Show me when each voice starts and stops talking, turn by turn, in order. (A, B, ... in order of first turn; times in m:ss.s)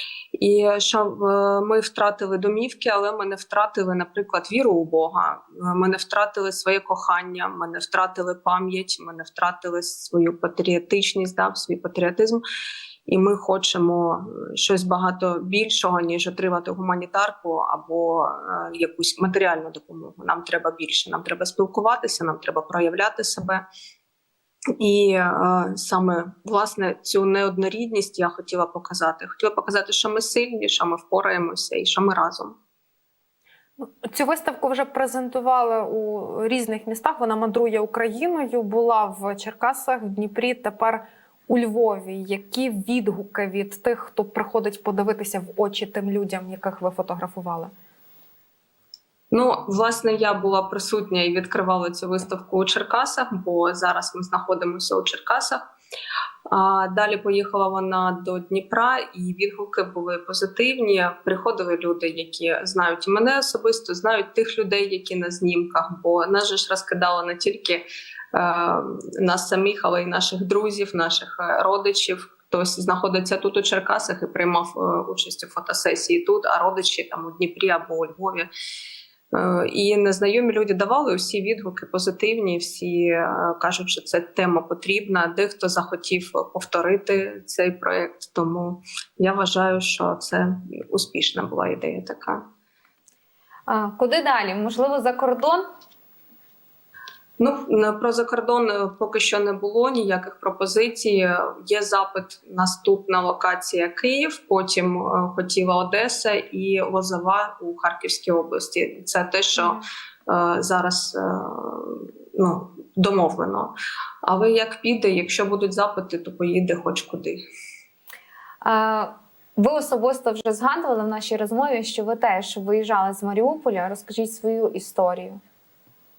0:00.4-0:12.4 A
0:13.1-0:23.6 A
0:24.8-0:32.6 A
0:33.8-0:47.7 B
0:49.3-0:55.6 A
0:56.5-1:18.5 A
1:19.3-1:32.4 A
1:33.7-1:35.7 C
1:37.4-1:53.7 A
1:54.2-1:57.4 A
1:58.6-2:05.4 C